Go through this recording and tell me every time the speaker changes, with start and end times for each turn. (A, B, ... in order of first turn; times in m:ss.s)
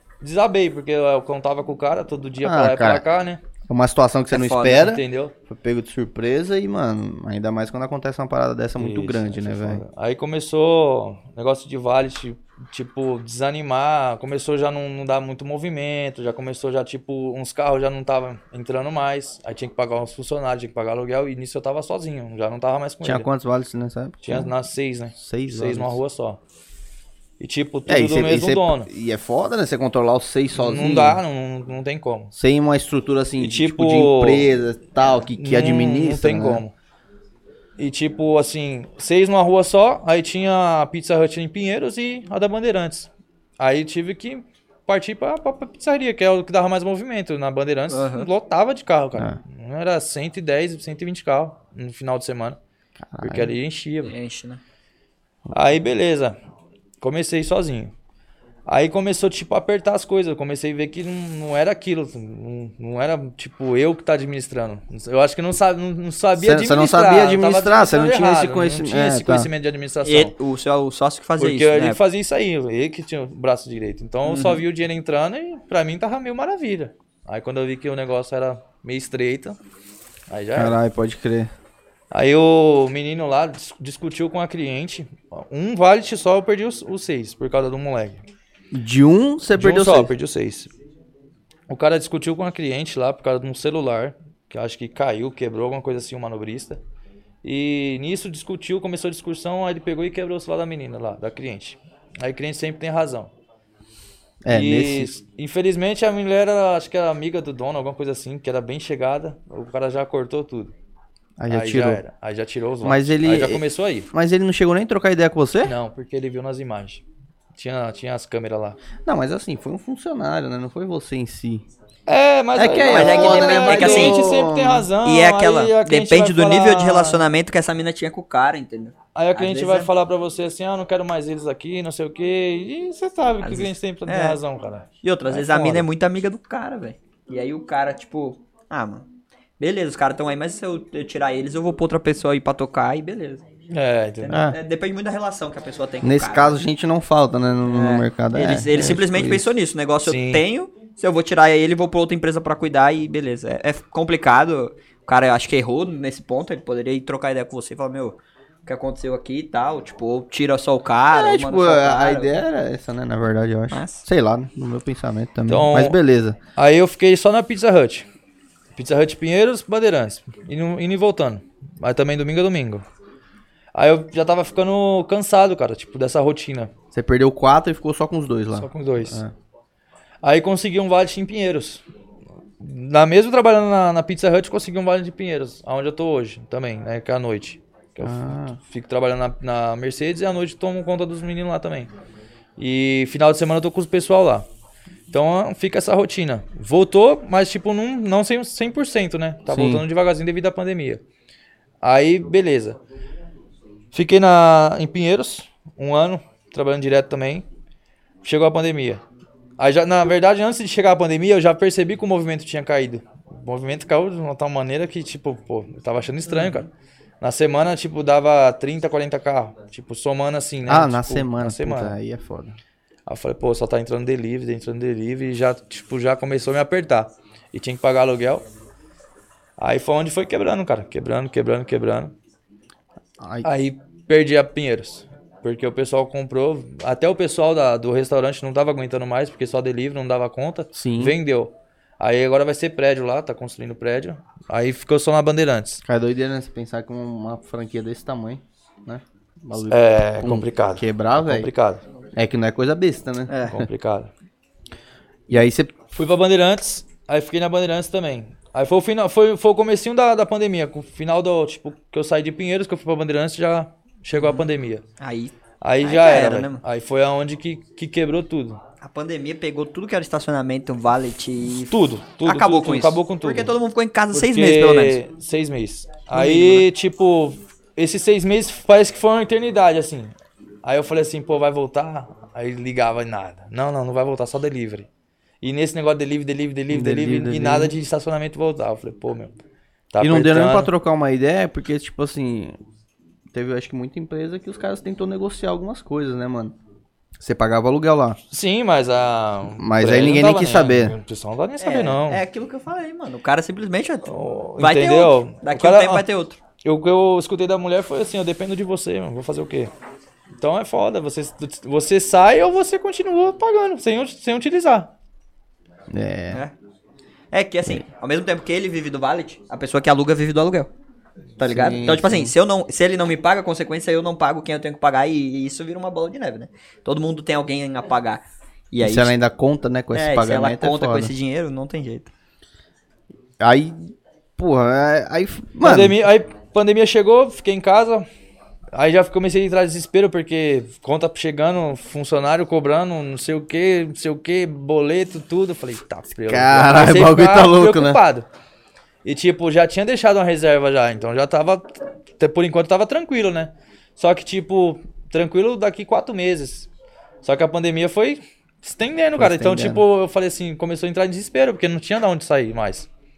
0:00.2-0:03.4 A
0:02.4-0:03.0 B
0:03.7-0:09.8 B
0:04.3-0:04.8 C
0:04.6-0:05.4 A
0:08.8-0:23.3 A
0:23.0-0:24.5 B
0:24.2-0:26.4 A
0:25.2-0:26.0 B
0:27.4-0:28.9 A
0:27.9-0:31.2 B
0:30.6-0:32.3 A
0:32.3-0:36.6 B
0:33.4-0:34.5 A
0:35.4-0:36.7 A
0:37.8-0:52.6 A
0:47.9-0:48.3 C
0:53.1-0:53.5 B
0:53.2-0:54.1 A
0:54.0-0:54.6 C
0:55.5-0:56.4 A
0:57.0-0:57.9 A
0:58.7-1:10.3 A
1:06.4-1:09.5 B
1:10.0-1:12.0 C
1:11.4-1:19.6 A
1:14.2-1:14.6 C
1:20.3-1:20.8 A
1:20.6-1:21.5 B
1:22.1-1:28.2 A
1:28.7-1:30.1 B
1:29.6-1:30.7 A
1:31.7-1:36.8 A
1:37.4-1:43.3 A
1:44.4-1:45.1 B
1:44.5-1:50.7 A
1:51.4-1:52.0 B
1:51.5-1:54.1 A
1:52.8-1:55.7 B
1:55.6-1:57.0 A
1:57.6-1:58.8 A
1:59.0-2:01.6 B
2:02.1-2:07.3 A
2:02.6-2:04.9 B
2:02.8-2:04.2 C
2:05.0-2:09.9 C
2:09.2-2:15.8 A
2:13.4-2:14.4 C
2:15.0-2:19.1 C
2:19.6-2:23.4 C
2:23.7-2:24.4 A
2:24.2-2:26.5 C
2:24.3-2:24.6 B
2:26.0-2:29.5 B
2:27.7-2:42.4 C
2:30.0-2:30.4 A
2:41.1-2:46.4 B
2:43.7-2:44.0 C
2:45.5-2:46.0 A
2:46.6-2:48.1 A
2:48.8-2:52.8 A
2:53.8-2:56.7 A
2:56.9-2:59.3 B
2:58.5-2:59.2 A
3:00.2-3:01.8 A
3:02.6-3:11.9 A
3:08.0-3:08.6 B
3:12.6-3:14.5 A
3:15.1-3:21.0 A
3:19.5-3:19.8 B
3:21.8-3:22.8 A
3:23.9-3:27.4 A
3:28.2-3:29.0 A
3:29.6-3:36.7 A
3:36.3-3:36.7 C
3:37.2-3:42.0 A
3:40.7-3:42.6 B
3:43.1-3:48.4 A
3:49.6-3:52.1 A
3:53.2-3:53.5 B
3:53.4-4:05.8 A
4:00.8-4:01.2 B
4:05.8-4:11.5 B
4:09.6-4:11.8 A
4:12.2-4:13.6 B
4:13.3-4:13.6 C
4:13.5-4:14.1 A
4:15.3-4:15.9 B
4:16.0-4:24.8 A
4:24.2-4:24.4 C
4:25.0-4:26.6 C
4:25.6-4:28.6 A
4:28.8-4:35.0 C
4:31.7-4:33.6 A
4:34.1-4:44.9 A
4:36.1-4:36.7 C
4:45.4-4:49.4 A
4:46.7-4:47.7 B
4:49.9-4:50.7 A
4:50.0-4:52.6 B
4:53.3-4:56.6 B
4:57.2-4:58.2 B
4:58.3-5:02.2 A
4:59.5-5:01.0 B
5:01.6-5:06.4 C
5:04.1-5:06.1 A
5:06.6-5:09.7 A
5:10.4-5:14.9 A
5:15.9-5:16.4 B
5:17.3-5:20.7 C
5:21.4-5:29.2 C
5:21.4-5:22.3 B
5:28.8-5:31.1 B
5:29.9-5:32.1 C
5:33.4-5:36.0 B
5:35.6-5:38.1 A
5:38.7-5:48.2 A
5:46.3-5:48.0 B
5:49.0-5:56.7 A
5:57.2-6:02.9 A
5:59.2-5:59.8 B